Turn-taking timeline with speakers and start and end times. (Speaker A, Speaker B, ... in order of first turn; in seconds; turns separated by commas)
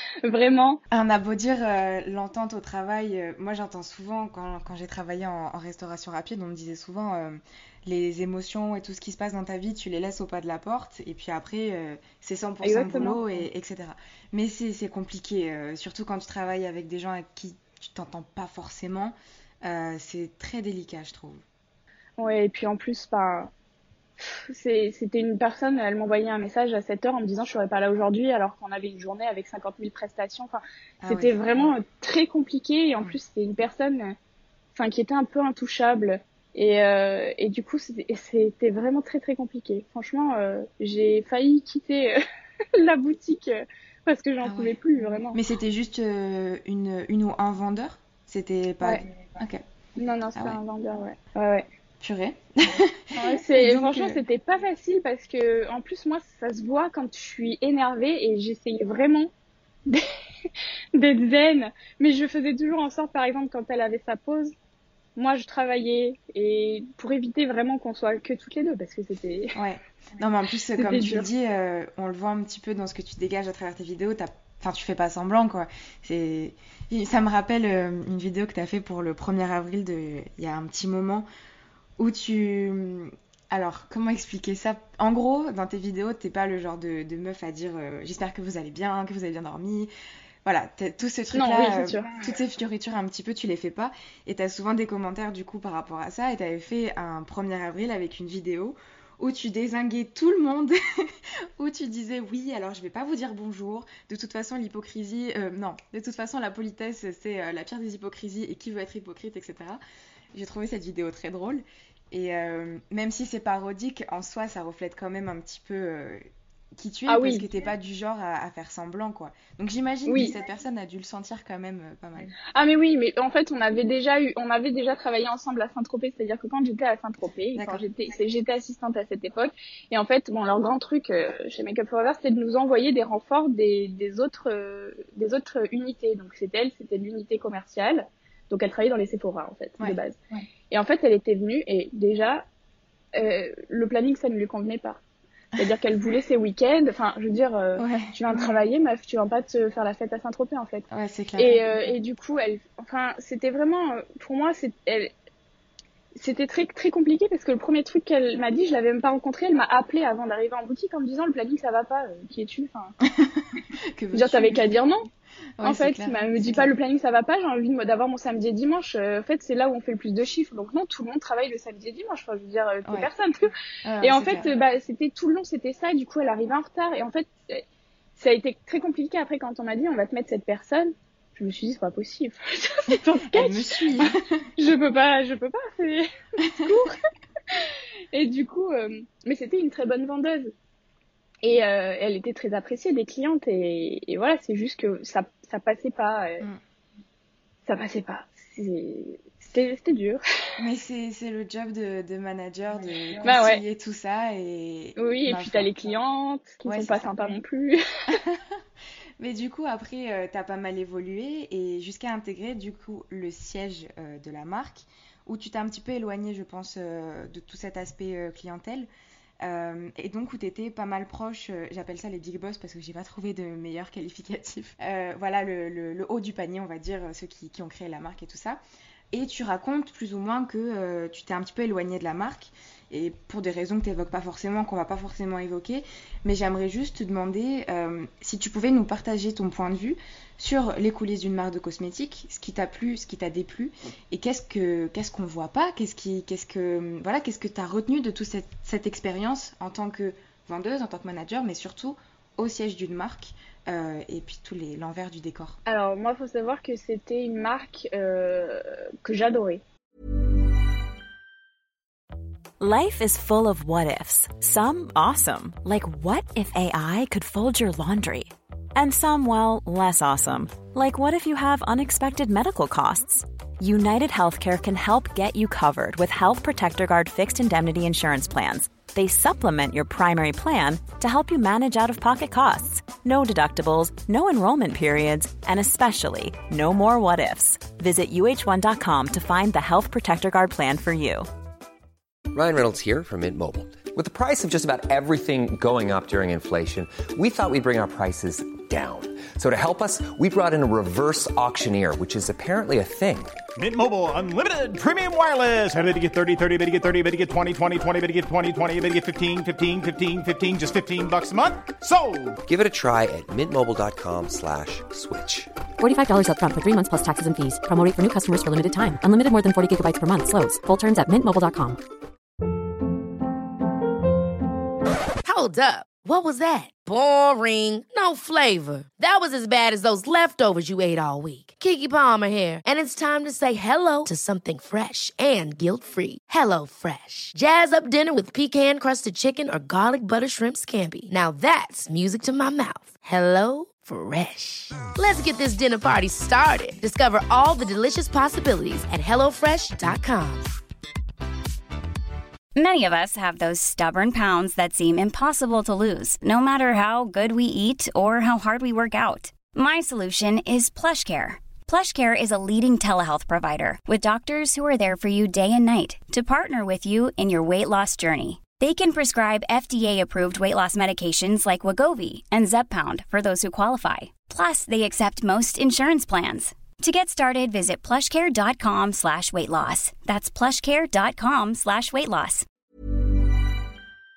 Speaker A: 0.2-0.8, Speaker B: 0.9-21.4, Speaker A: 12.6-13.2, Speaker A: 22.2-23.5, Speaker A: 24.3-34.2, Speaker B: 31.0-31.4, Speaker A: 34.7-42.2, Speaker A: 42.7-45.4, Speaker B: 44.4-44.7, Speaker B: 45.3-49.6, Speaker A: 50.0-51.7, Speaker B: 50.3-50.6, Speaker B: 52.0-54.2, Speaker A: 53.1-59.3, Speaker A: 61.0-64.5, Speaker A: 65.2-69.6, Speaker B: 69.5-81.3, Speaker A: 70.8-71.3, Speaker B: 82.0-89.9, Speaker B: 90.5-109.8, Speaker A: 91.3-92.2, Speaker B: 110.3-122.3, Speaker A: 117.1-117.5, Speaker A: 120.1-120.3, Speaker A: 122.5-140.2, Speaker B: 127.5-127.8, Speaker A: 140.7-142.4, Speaker A: 143.1-145.0, Speaker A: 145.6-155.1, Speaker B: 147.8-148.6, Speaker B: 150.9-151.7, Speaker A: 156.2-162.9, Speaker B: 163.1-164.7, Speaker A: 164.1-165.1, Speaker B: 165.6-166.7, Speaker A: 165.6-177.6, Speaker B: 172.8-173.1, Speaker B: 173.8-174.5, Speaker A: 178.2-187.0, Speaker B: 183.3-184.5, Speaker B: 186.4-186.7, Speaker A: 187.5-190.5, Speaker A: 191.4-196.4, Speaker A: 197.7-200.2, Speaker B: 200.6-205.7, Speaker A: 203.2-203.6, Speaker A: 205.0-207.8, Speaker B: 206.6-207.2, Speaker B: 208.1-208.6, Speaker B: 209.2-218.9, Speaker B: 219.4-228.6, Speaker B: 229.1-255.6, Speaker A: 255.7-259.6, Speaker C: 262.6-291.3, Speaker D: 292.3-303.3, Speaker E: 303.6-312.4, Speaker D: 312.5-315.5, Speaker F: 315.8-321.8, Speaker G: 325.2-350.4, Speaker H: 352.6-382.4